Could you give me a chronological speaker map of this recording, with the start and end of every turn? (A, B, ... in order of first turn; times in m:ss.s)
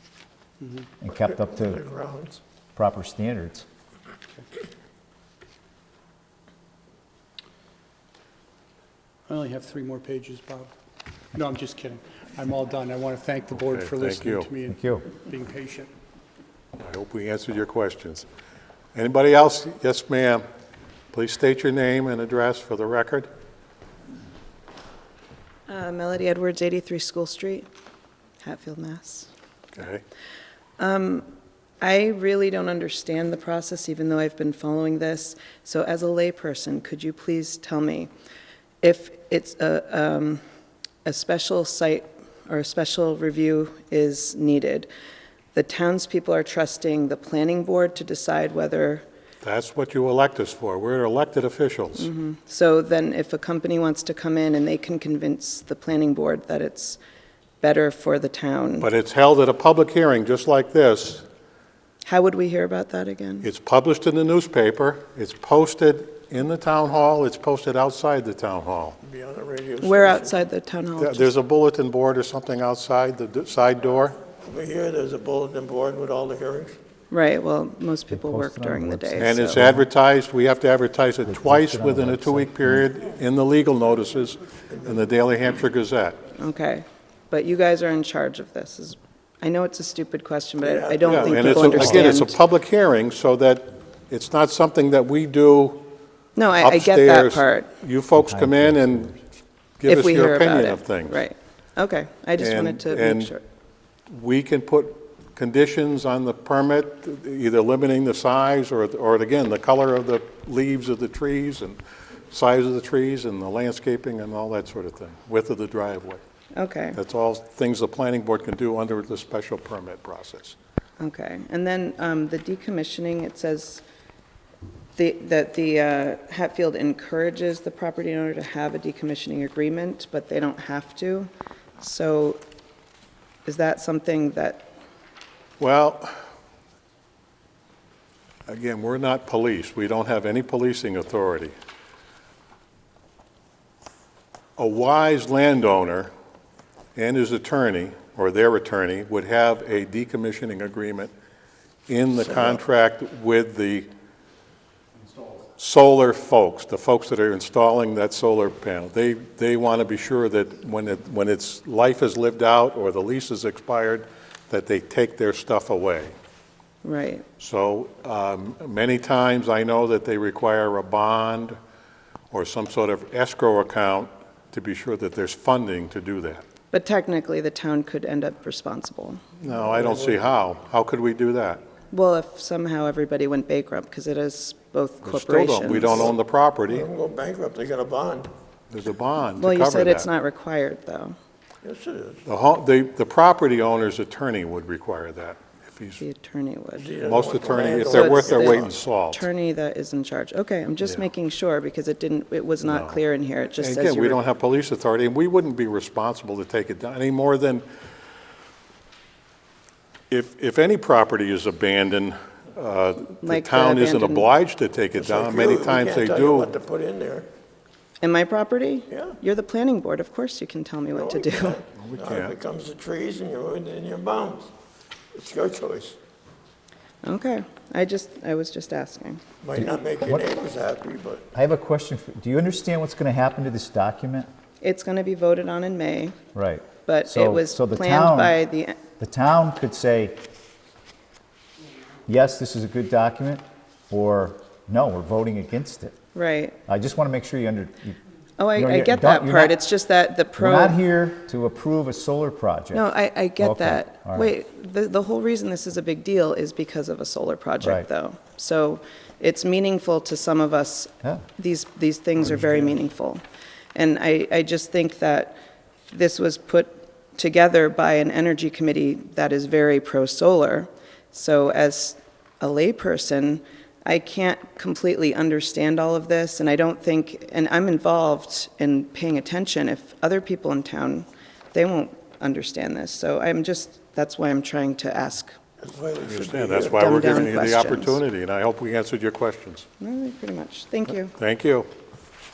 0:00.6-0:00.9 A
0:01.0-0:01.8 B
0:01.3-0:02.4 C
0:02.7-0:03.6 B
0:09.3-0:10.7 A
0:11.3-0:15.9 A
0:13.6-0:14.5 D
0:14.7-0:15.0 B
0:16.8-0:18.3 D
0:18.9-0:20.4 D
0:21.1-0:23.3 D
0:25.7-0:27.7 E
0:28.4-0:29.3 E
0:29.7-0:30.0 D
0:30.8-0:31.3 E
0:31.8-0:38.1 E
0:38.8-0:40.4 E
0:41.0-0:44.9 E
0:45.5-0:49.0 E
0:49.4-0:52.1 D
0:52.0-0:57.0 E
0:57.6-0:58.9 E
0:58.8-1:01.2 D
1:02.0-1:03.4 E
1:03.4-1:09.0 D
1:09.0-1:10.4 C
1:09.8-1:11.3 E
1:11.0-1:14.2 D
1:14.4-1:16.8 C
1:17.1-1:19.6 E
1:18.1-1:19.8 B
1:19.2-1:26.2 D
1:21.2-1:22.9 B
1:24.7-1:25.0 C
1:26.3-1:32.3 E
1:30.6-1:32.2 C
1:31.0-1:35.9 D
1:36.4-1:37.7 E
1:36.6-1:39.2 D
1:38.3-1:39.2 B
1:39.8-1:41.2 D
1:39.8-1:43.4 E
1:42.4-1:43.3 D
1:44.1-1:51.8 D
1:52.3-1:56.2 D
1:56.5-1:57.0 E
1:56.9-2:00.6 D
2:01.0-2:03.8 E
2:05.0-2:12.4 E
2:13.4-2:14.7 E
2:15.6-2:16.1 D
2:18.5-2:21.5 D
2:24.6-2:26.1 D
2:26.9-2:31.1 D
2:31.9-2:33.9 D
2:32.2-2:32.6 C
2:35.6-2:46.1 D
2:46.8-2:47.3 E
2:47.4-2:51.6 D
2:52.3-2:56.4 D
2:56.7-2:59.2 E
2:59.4-3:01.6 D
2:59.5-3:00.2 C
3:01.9-3:06.0 E
3:05.0-3:06.9 D
3:05.8-3:06.1 C
3:06.7-3:08.3 C
3:08.7-3:10.1 D
3:09.4-3:11.2 E
3:11.6-3:12.2 C
3:12.2-3:16.0 D
3:16.0-3:16.9 E
3:16.8-3:18.8 C
3:17.0-3:19.3 D
3:17.9-3:24.2 E
3:22.6-3:23.0 D
3:23.5-3:27.6 D
3:30.1-3:36.5 D
3:33.2-3:34.3 E
3:34.9-3:37.3 C
3:38.0-3:41.6 E
3:38.9-3:39.2 C
3:40.9-3:44.5 C
3:41.7-3:42.3 D
3:45.1-3:46.0 C
3:47.0-3:49.2 E
3:49.4-3:51.2 C
3:51.3-3:54.3 B
3:54.6-3:56.2 E
3:56.3-3:58.3 B
3:56.7-3:58.9 E
3:59.0-4:00.2 B
4:02.1-4:05.9 B
4:06.1-4:06.6 E
4:06.7-4:08.0 B
4:08.4-4:10.8 E
4:08.6-4:09.5 B
4:10.4-4:12.8 B
4:12.7-4:23.2 E
4:13.4-4:14.2 B
4:23.7-4:25.4 E
4:25.9-4:45.4 E
4:45.6-4:47.2 C
4:46.0-4:49.7 D
4:46.8-4:48.0 E
4:49.8-4:51.1 E
4:51.1-4:51.7 D